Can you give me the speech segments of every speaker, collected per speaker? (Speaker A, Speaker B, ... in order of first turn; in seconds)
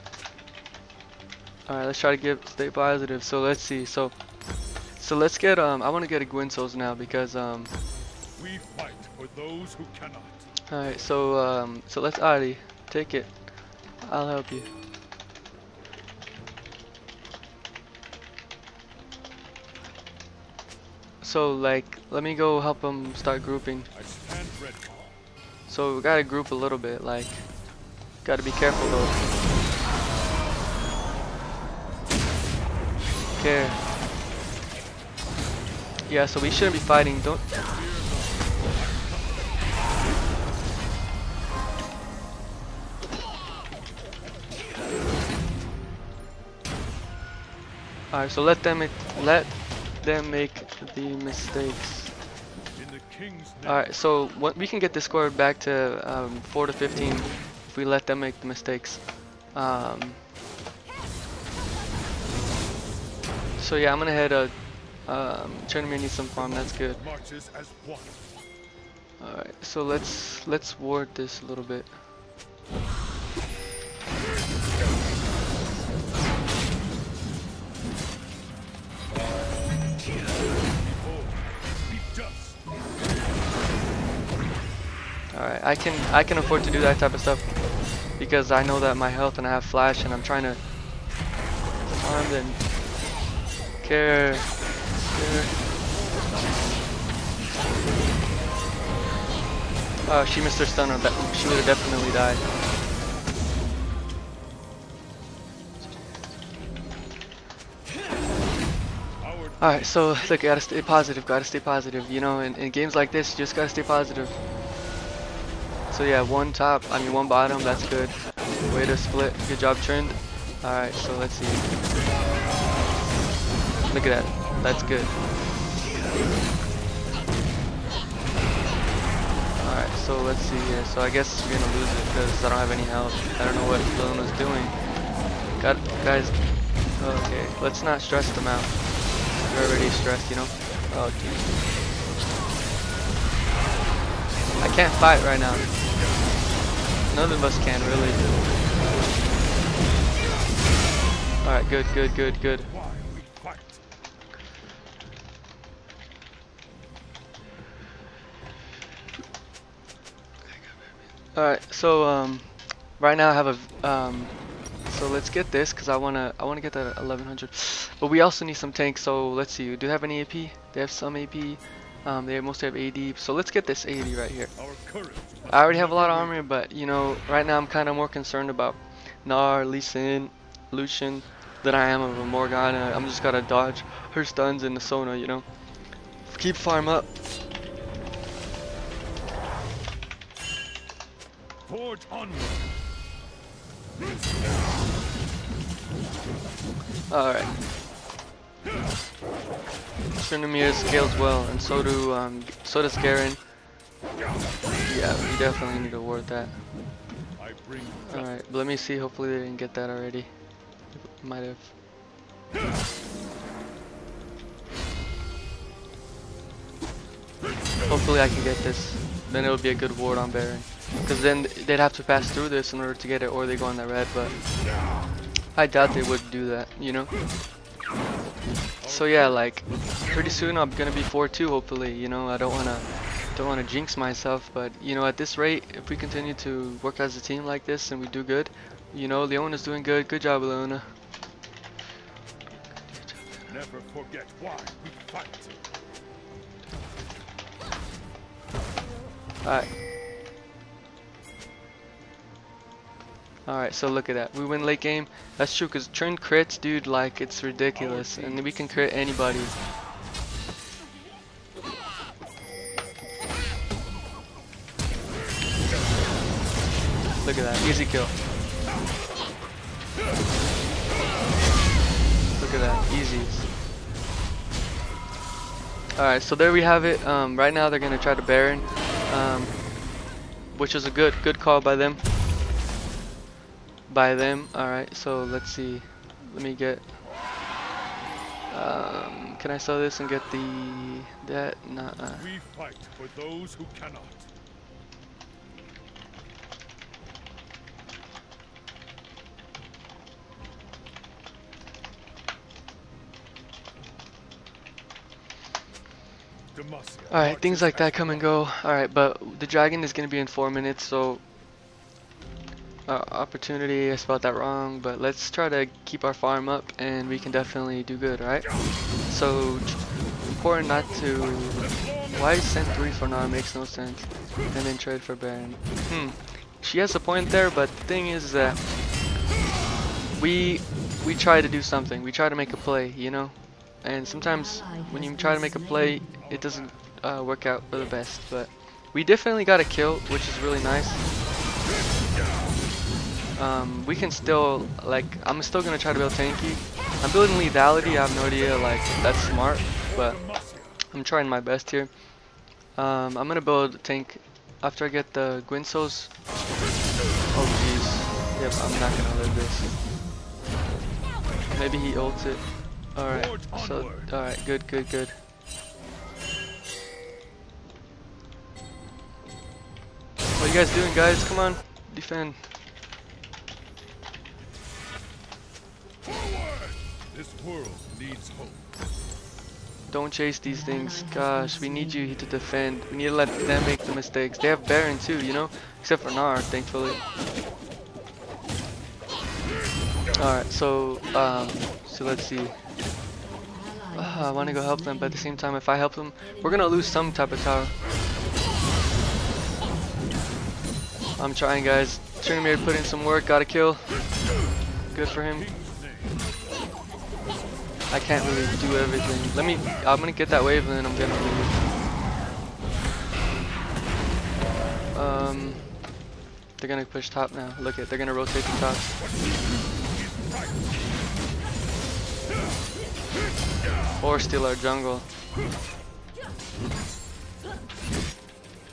Speaker A: 1.7-4.2, 5.0-7.7, 10.7-13.4, 14.0-14.7, 21.2-23.9, 25.7-27.5, 28.2-29.2, 33.4-33.8, 36.1-37.5, 48.1-52.2, 53.6-60.2, 63.6-67.0, 69.2-72.0, 85.3-87.5, 88.2-90.6, 91.9-92.6, 93.8-95.7, 100.1-102.4, 109.6-114.3, 115.9-121.7, 123.9-125.1, 129.6-134.8, 135.6-141.5, 144.6-145.7, 147.1-148.4, 151.4-152.7, 161.3-174.5, 175.5-185.5, 186.2-187.1, 197.1-197.6, 200.2-203.4, 204.9-206.6, 208.1-210.3, 210.8-211.7, 217.9-224.4, 225.5-227.1, 228.8-240.9, 242.9-243.5, 249.4-249.7, 253.5-259.6, 267.2-268.1, 272.4-273.5, 276.0-279.8, 280.5-282.1, 283.9-287.0, 288.5-292.3, 307.1-311.3, 312.9-328.6, 330.2-341.1, 343.4-350.2, 350.8-352.0, 352.7-356.2, 357.3-359.8, 361.5-365.2, 370.3-372.5, 379.9-387.0, 390.1-392.6, 393.9-397.7, 401.2-404.1, 404.9-405.5, 407.9-411.6, 414.9-415.9, 416.6-418.9, 424.0-425.1
Speaker B: 8.4-10.5, 23.9-25.1, 37.7-38.8, 52.8-53.8, 66.5-68.2, 80.8-82.6, 109.2-109.8, 152.7-153.8, 174.6-176.3, 191.7-192.8, 207.4-208.4, 228.8-230.2, 243.5-245.5, 257.8-258.8, 292.1-294.3, 306.5-308.3, 350.2-350.7, 363.1-364.1, 376.0-378.7, 405.0-406.2, 419.0-420.6